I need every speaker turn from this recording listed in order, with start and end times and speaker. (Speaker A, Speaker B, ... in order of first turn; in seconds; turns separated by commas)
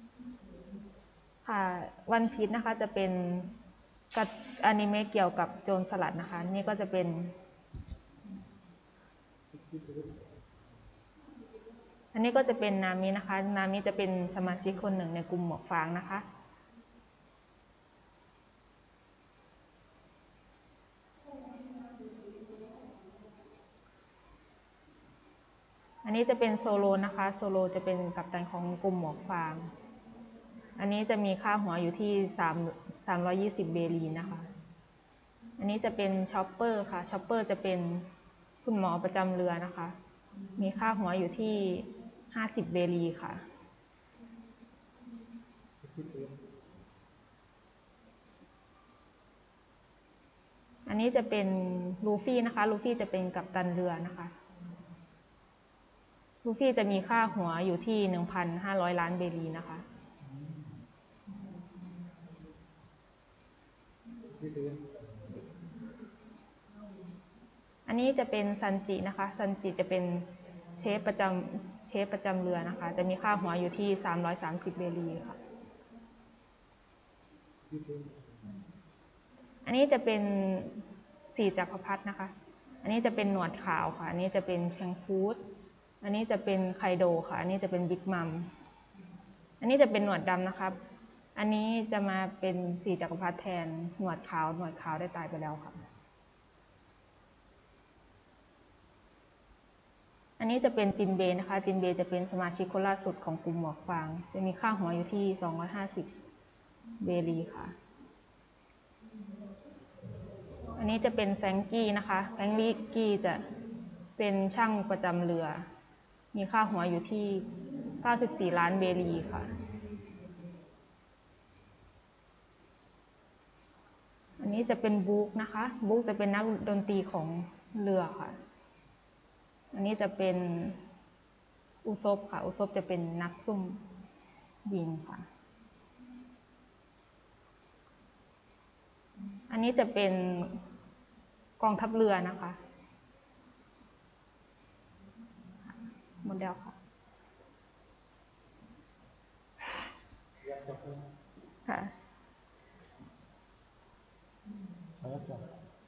Speaker A: 1.4-3.5, Speaker A: 4.1-7.3, Speaker B: 9.5-10.3, Speaker A: 12.1-16.2, Speaker A: 26.0-29.7, Speaker A: 30.8-34.5, Speaker A: 35.6-38.1, Speaker A: 38.6-40.0, Speaker A: 40.5-43.4, Speaker B: 45.8-46.4, Speaker A: 50.9-54.3, Speaker A: 56.4-59.8, Speaker B: 60.2-60.7, Speaker B: 64.2-65.4, Speaker A: 67.8-75.4, Speaker B: 77.7-78.6, Speaker A: 79.6-85.4, Speaker A: 86.0-88.5, Speaker A: 89.6-90.8, Speaker A: 91.3-95.8, Speaker A: 100.4-106.1, Speaker A: 107.0-107.8, Speaker A: 110.7-113.4, Speaker A: 114.2-115.7, Speaker A: 116.3-117.5, Speaker A: 118.0-119.5, Speaker A: 124.4-128.4, Speaker A: 129.7-130.8, Speaker A: 131.8-133.8, Speaker A: 134.6-135.2, Speaker A: 139.5-140.6, Speaker A: 141.6-142.6, Speaker A: 146.2-146.8, Speaker B: 150.4-151.1, Speaker A: 151.7-151.9, Speaker B: 155.0-155.5